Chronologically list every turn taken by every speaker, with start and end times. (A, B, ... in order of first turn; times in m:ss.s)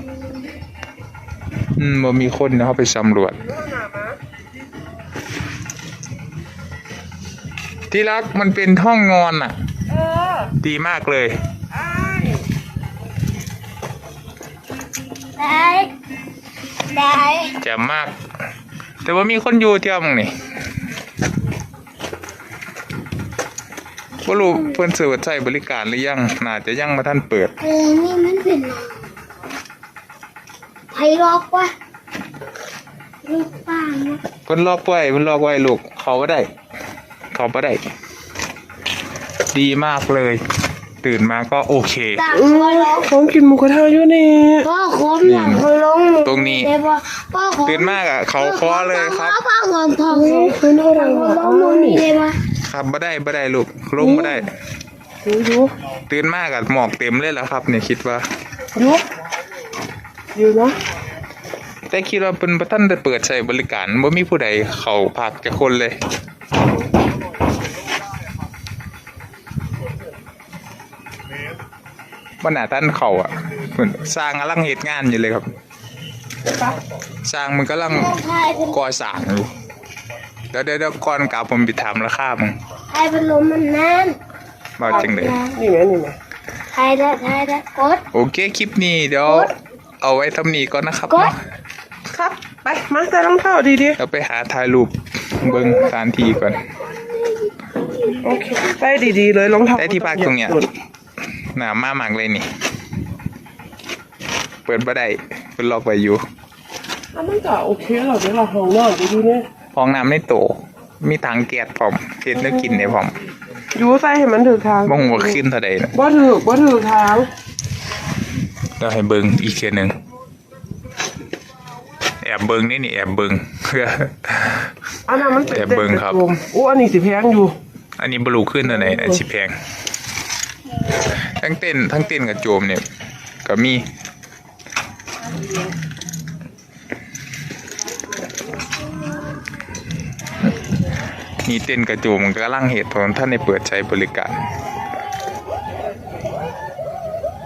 0:01.8-0:03.4 A
0:03.6-0:04.1 B
0:07.9-0:09.5 A
0:09.9-0:10.5 B
0:10.6-0:11.3 A
0:11.7-0:12.4 B
0:15.4-0:15.9 C
0:16.9-0:17.5 C
0:17.6-0:18.1 A
0:19.0-0:20.3 A
0:24.2-0:27.5 A
0:27.6-0:29.1 C
0:30.9-0:31.7 C
0:33.2-0:34.2 C
0:34.5-0:36.4 A
0:37.3-0:37.8 A
0:39.5-0:40.4 A
0:41.0-0:42.2 A
0:42.2-0:43.0 C
0:42.3-0:44.7 B
0:44.6-0:52.4 C
0:45.2-0:45.7 A
0:46.2-0:46.7 A
0:47.6-0:49.4 A
0:50.1-0:52.0 B
0:52.6-0:54.5 A
0:54.0-0:54.5 B
0:55.2-0:55.7 B
0:56.1-0:58.2 A
0:58.8-0:59.0 B
1:00.3-1:00.8 B
1:01.9-1:06.0 A
1:12.4-1:15.5 A
1:17.2-1:19.5 A
1:17.9-1:18.8 C
1:20.5-1:22.6 A
1:22.9-1:24.2 C
1:24.8-1:25.4 A
1:24.8-1:25.5 C
1:24.8-1:26.2 B
1:26.7-1:28.0 C
1:28.1-1:31.4 A
1:32.1-1:34.0 B
1:34.0-1:36.6 A
1:38.2-1:40.7 B
1:39.7-1:40.6 A
1:41.5-1:42.5 A
1:44.6-1:46.2 A
1:47.1-1:49.4 B
1:49.7-1:53.1 A
1:53.7-1:55.4 B
1:54.8-1:55.9 A
1:55.9-1:57.3 B
1:58.8-1:59.9 A
2:02.2-2:04.7 A
2:05.1-2:07.5 B
2:05.5-2:06.2 A
2:08.0-2:09.5 A
2:11.4-2:12.8 A
2:13.4-2:13.8 A
2:21.4-2:24.3 A